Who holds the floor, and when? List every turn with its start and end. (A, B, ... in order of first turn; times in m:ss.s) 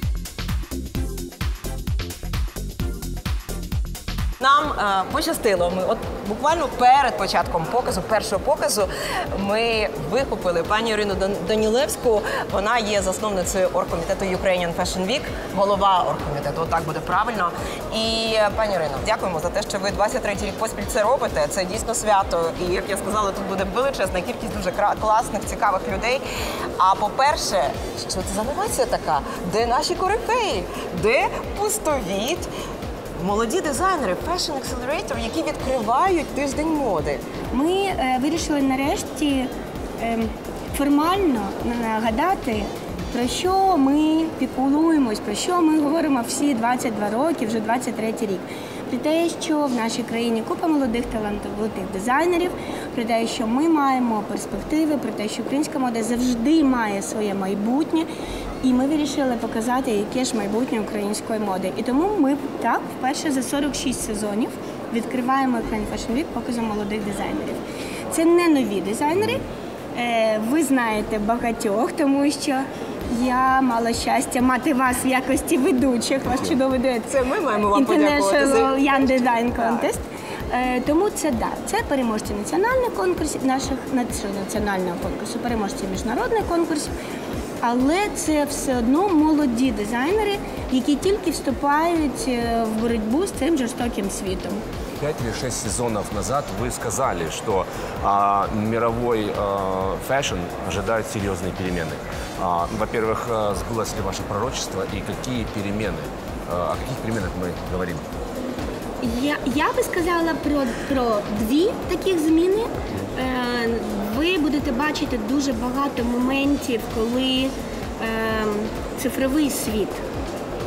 0:04.5-0:08.9 A
0:09.4-0:26.2 A
0:26.8-0:32.5 A
0:33.2-0:37.2 A
0:37.5-0:58.1 B
0:58.6-1:09.4 B
1:10.0-1:26.9 B
1:17.8-1:18.4 A
1:27.6-1:34.6 B
1:35.0-1:48.0 C
1:49.0-2:00.0 B